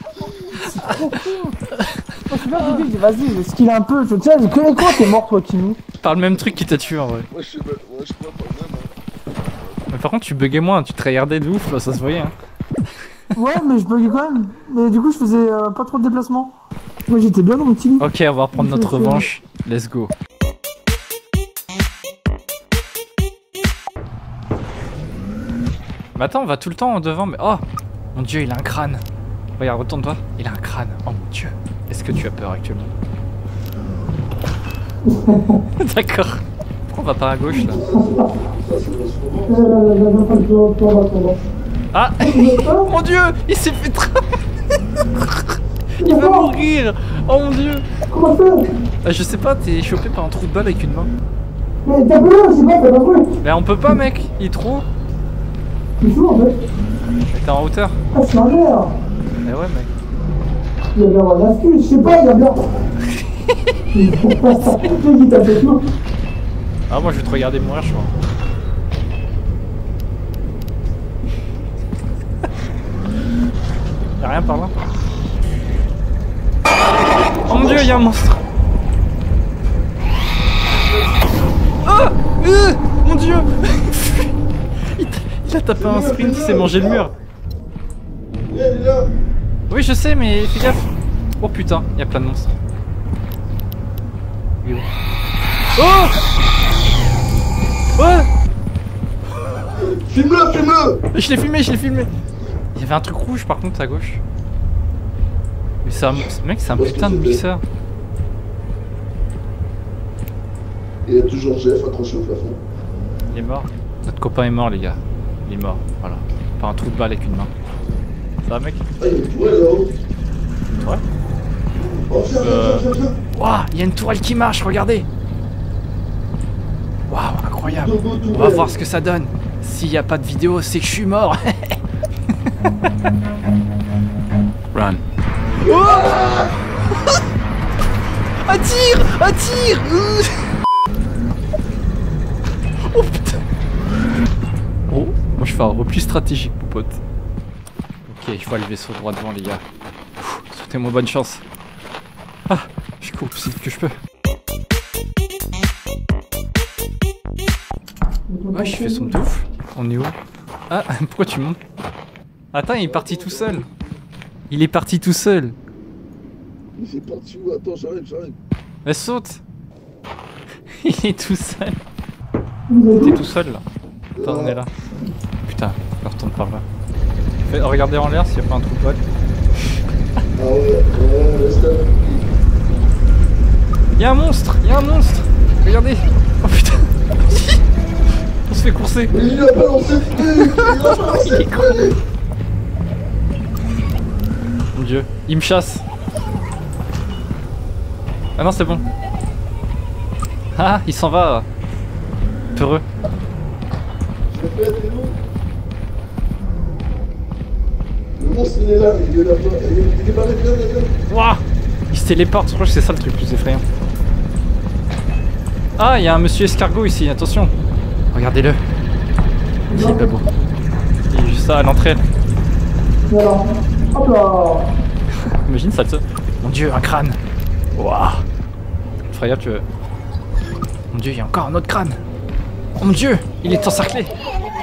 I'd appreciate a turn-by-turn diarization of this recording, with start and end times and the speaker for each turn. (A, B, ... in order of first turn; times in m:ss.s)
0:00.2-0:00.6 A
0:00.6-0:01.6 B
0:00.6-0:02.9 C
0:02.3-0:05.8 B
0:06.0-0:07.3 C
0:07.3-0:08.9 A
0:09.9-0:12.3 C
0:13.3-0:16.5 B
0:17.1-0:19.3 B
0:18.0-0:20.1 C
0:26.2-0:27.6 C
0:28.1-0:29.0 C
0:29.6-0:32.9 C
0:35.0-0:35.6 B
0:35.8-0:37.8 C
0:37.6-0:39.7 A
0:37.8-0:38.2 B
0:39.5-0:41.4 B
0:41.9-0:47.8 C
0:42.2-0:42.9 B
0:46.0-0:46.5 B
0:48.1-0:48.6 B
0:49.0-0:51.1 C
0:51.8-0:53.3 B
0:53.4-0:54.8 C
0:56.0-0:56.6 B
0:57.3-0:58.0 C
0:58.1-0:58.9 B
0:59.4-0:59.9 C
1:00.9-1:02.6 B
1:03.0-1:03.8 C
1:03.9-1:05.8 B
1:04.6-1:04.8 C
1:06.9-1:08.1 C
1:14.2-1:14.7 C
1:16.8-1:18.0 A
1:17.5-1:18.4 C
1:20.7-1:21.3 A
1:21.8-1:24.4 C
1:24.9-1:27.1 C
1:25.8-1:27.1 A
1:28.3-1:29.1 A
1:29.7-1:32.5 C
1:34.6-1:34.9 C
1:35.8-1:36.2 C
1:38.0-1:38.3 C
1:39.5-1:41.0 A
1:41.1-1:42.1 C
1:42.7-1:44.2 C
1:45.8-1:47.6 C
1:46.1-1:47.4 A
1:51.0-1:52.6 A
1:53.3-1:57.5 C
1:58.4-1:58.8 C
1:59.0-2:00.0 A
2:01.7-2:03.1 A
2:02.4-2:05.1 C
2:07.1-2:11.8 C
2:07.6-2:08.8 A
2:15.6-2:16.4 C
2:15.6-2:16.5 A
2:18.4-2:20.5 C
2:22.9-2:23.4 C
2:24.9-2:27.0 C
2:28.1-2:29.6 C
2:30.2-2:31.4 C
2:32.5-2:33.9 C
2:38.3-2:39.1 B
2:38.5-2:40.2 C
2:40.7-2:41.6 C
2:42.5-2:43.7 C
2:42.8-2:44.0 A
2:44.5-2:45.6 C
2:46.7-2:48.4 A
2:48.8-2:49.4 C
2:50.7-2:51.8 C
2:52.7-2:53.2 B
2:53.0-2:53.6 C
2:54.1-2:54.6 A
2:54.2-2:54.7 C
2:55.4-2:56.6 C
2:57.4-2:59.0 C
3:00.4-3:02.3 A
3:04.0-3:07.6 C
3:08.5-3:09.1 C
3:09.1-3:12.0 A
3:10.2-3:11.9 C
3:14.7-3:15.8 C
3:18.4-3:18.8 C
3:20.5-3:21.5 C
3:22.5-3:22.8 C
3:24.3-3:25.2 A
3:28.2-3:30.9 A
3:31.1-3:33.6 C
3:35.8-3:37.5 C
3:38.1-3:38.6 C
3:39.7-3:40.1 B
3:39.7-3:40.3 C
3:41.1-3:42.0 C
3:43.1-3:44.7 B
3:45.2-3:47.2 C
3:47.8-3:48.2 C
3:49.1-3:49.6 C
3:50.9-3:52.0 C
3:52.8-3:54.1 C